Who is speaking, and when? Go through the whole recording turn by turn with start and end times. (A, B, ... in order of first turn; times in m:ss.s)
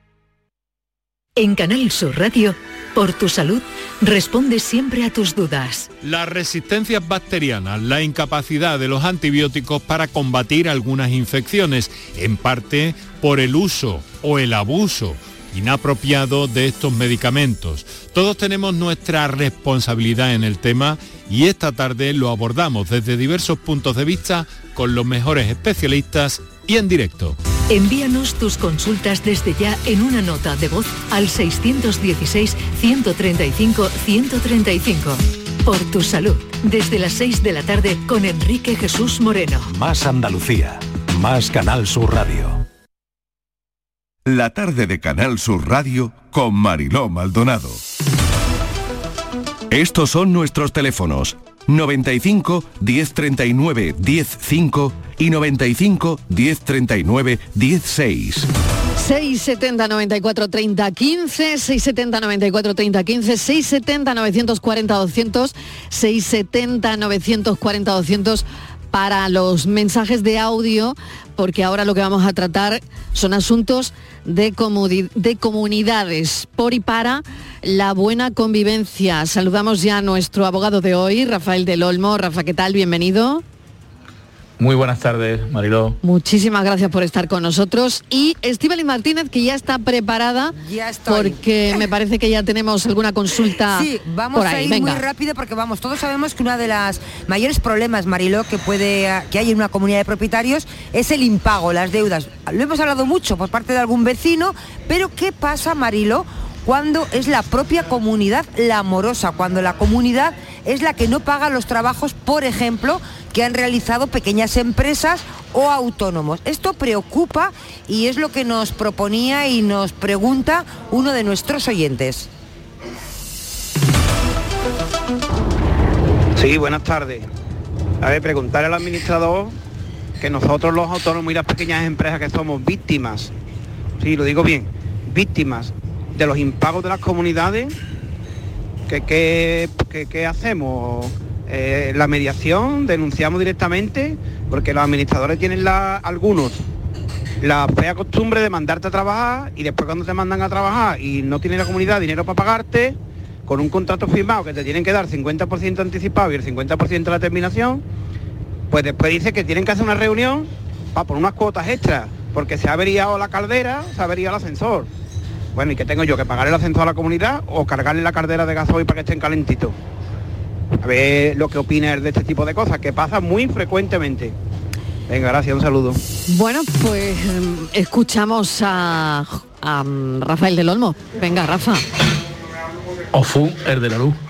0:01.4-0:05.9 A
0:06.0-0:27.4 B
0:27.7-0:39.7 A
0:39.7-0:42.6 C
0:44.2-0:47.8 C
0:49.7-0:58.5 C
0:59.0-1:23.4 D
1:24.6-1:26.0 E
1:26.0-1:35.0 D
1:30.6-1:31.4 F
1:33.7-2:02.3 F
2:06.4-2:07.3 G
2:08.0-2:09.6 G
2:10.2-2:13.3 G
2:14.0-2:17.7 G
2:18.9-2:26.6 G
2:27.4-2:33.0 G
2:33.5-2:37.8 G
2:38.7-2:44.9 G
2:45.5-2:49.7 G
2:50.8-2:54.3 G
2:55.1-2:56.0 G
2:56.3-3:01.8 D
3:03.1-3:04.2 E